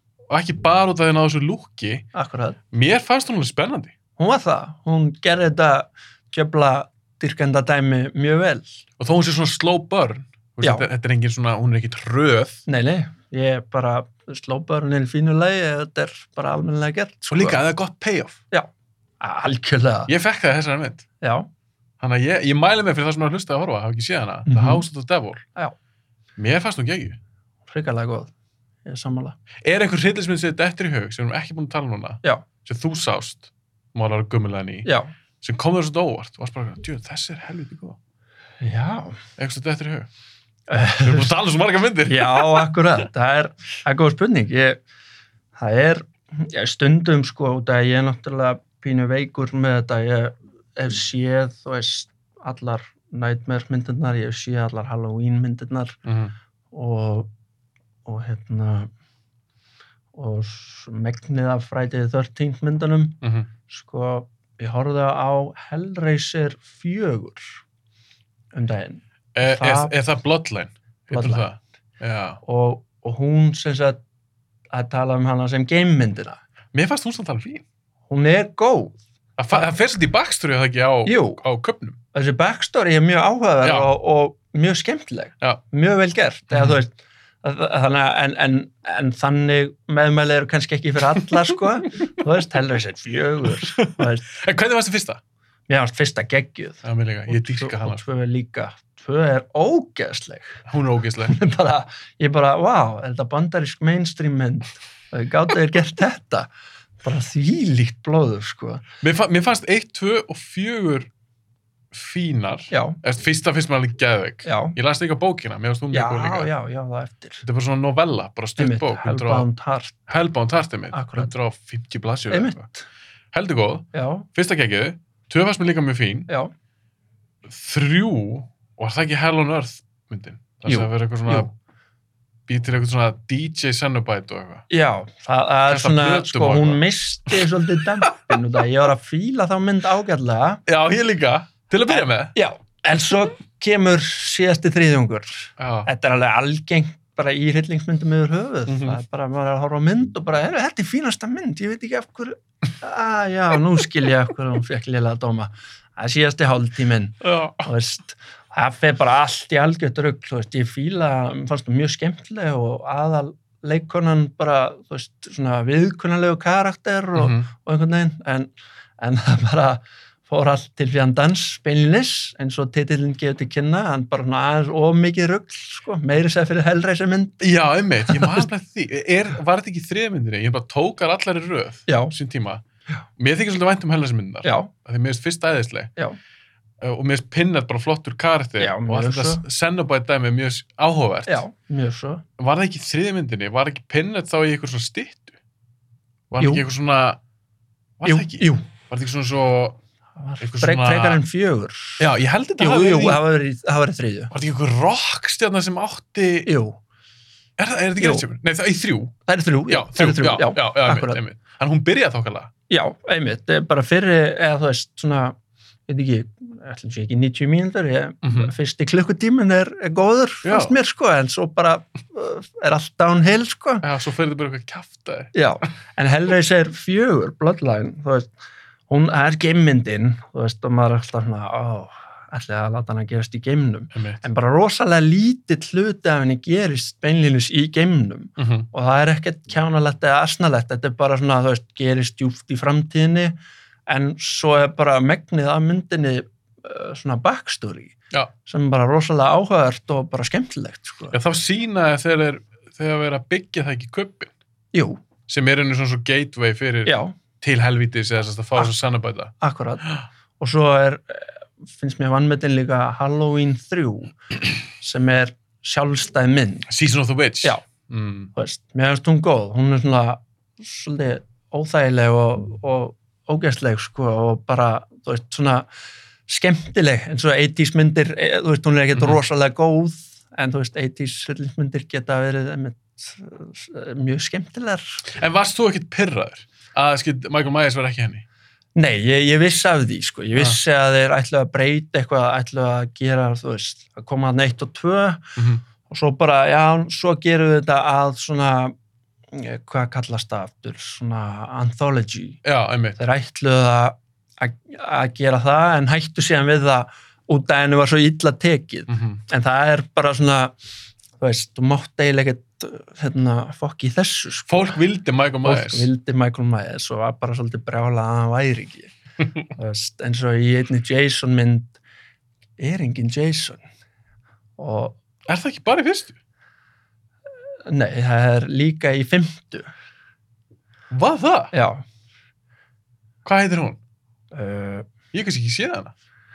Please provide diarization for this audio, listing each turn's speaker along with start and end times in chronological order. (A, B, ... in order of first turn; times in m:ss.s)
0:00.3-0:02.1 A
0:02.1-0:02.6 B
0:02.7-0:03.9 A
0:04.2-0:08.8 B
0:09.0-0:12.6 A
0:10.6-0:10.9 B
0:12.7-0:17.6 B
0:17.3-0:18.4 A
0:19.2-0:20.1 B
0:20.1-0:21.0 A
0:21.2-0:21.5 B
0:22.0-0:25.4 A
0:24.5-0:24.8 B
0:26.4-0:27.2 A
0:27.7-0:28.3 B
0:28.8-0:29.4 B
0:29.6-0:34.9 A
0:34.8-0:35.1 B
0:35.4-0:38.0 A
0:38.6-0:39.2 B
0:39.4-0:40.1 A
0:40.7-0:41.3 B
0:41.0-0:42.7 A
0:42.1-0:44.8 B
0:45.6-0:56.0 B
0:56.0-0:56.3 A
0:56.7-0:57.3 B
0:58.1-0:58.9 B
1:00.2-1:07.5 B
1:03.2-1:03.5 A
1:08.5-1:09.9 B
1:09.4-1:12.4 A
1:11.1-1:11.5 B
1:12.4-1:14.0 B
1:14.7-1:16.4 B
1:16.7-1:17.6 A
1:18.1-1:19.0 B
1:19.4-1:22.0 A
1:21.0-1:21.4 B
1:22.1-1:34.3 B
1:23.6-1:23.9 A
1:26.5-1:26.8 A
1:33.5-1:35.2 A
1:35.7-1:40.6 B
1:36.8-1:38.0 A
1:40.7-1:41.4 A
1:41.2-1:46.5 B
1:47.0-1:48.8 B
1:49.0-1:51.1 A
1:51.9-1:56.5 A
1:52.7-1:53.0 B
1:54.4-1:54.8 B
1:55.9-1:57.4 B
1:57.4-1:59.5 A
1:58.6-2:00.0 B
2:00.1-2:02.6 A
2:00.9-2:01.3 B
2:02.3-2:02.8 B
2:03.3-2:06.3 A
2:03.9-2:04.3 B
2:07.4-2:11.5 A
2:10.7-2:11.5 B
2:12.5-2:14.6 A
2:14.7-2:20.6 B
2:15.7-2:17.5 A
2:18.0-2:18.4 A
2:20.7-2:22.3 A
2:21.9-2:57.4 B
2:25.6-2:25.9 A
2:28.7-2:29.0 A
2:37.2-2:37.7 A
2:47.2-2:47.5 A
2:57.4-3:02.6 A
2:58.1-2:58.5 B
3:01.9-3:02.1 B
3:03.2-3:05.9 A
3:04.4-3:04.7 B
3:06.8-3:11.4 A
3:08.6-3:09.4 B
3:11.3-3:12.2 B
3:12.4-3:15.4 A
3:16.3-3:17.2 A
3:18.0-3:19.8 A
3:18.1-3:18.7 B
3:20.2-3:22.0 B
3:20.4-3:21.2 A
3:22.0-3:23.2 A
3:22.6-3:24.3 B
3:24.3-3:26.5 A
3:26.5-3:26.8 B
3:27.6-3:29.1 A
3:28.0-3:28.2 B
3:29.3-3:31.2 B
3:29.7-3:32.5 A
3:32.7-3:35.4 B
3:35.9-3:43.9 B
3:38.2-3:38.5 A
3:40.4-3:40.8 A
3:43.8-3:45.3 A
3:45.3-3:48.3 B
3:48.9-4:03.4 B
3:53.9-3:54.2 A
3:58.4-3:58.7 A
4:03.9-4:11.2 B
4:11.1-4:14.3 A
4:14.7-4:15.0 B
4:15.3-4:19.3 A
4:16.9-4:17.1 B
4:19.4-4:19.9 B
4:20.4-4:24.2 B
4:24.8-4:26.7 B
4:26.7-4:28.3 A
4:28.4-4:35.7 B
4:36.3-4:45.0 B
4:45.1-4:48.2 A
4:48.8-4:58.7 B
4:55.4-4:55.6 A
4:59.3-5:02.4 B
5:02.4-5:03.0 A
5:03.0-5:10.6 B
5:08.9-5:09.2 A
5:11.2-5:14.8 B
5:14.5-5:15.9 A
5:15.4-5:18.9 B
5:19.5-5:21.8 B
5:22.6-5:23.6 B
5:24.6-5:25.0 B
5:25.3-5:26.2 A
5:27.7-5:29.7 B
5:30.9-5:31.5 A
5:31.5-5:31.8 B
5:33.2-5:33.8 A
5:34.3-5:34.9 B
5:35.1-5:35.9 A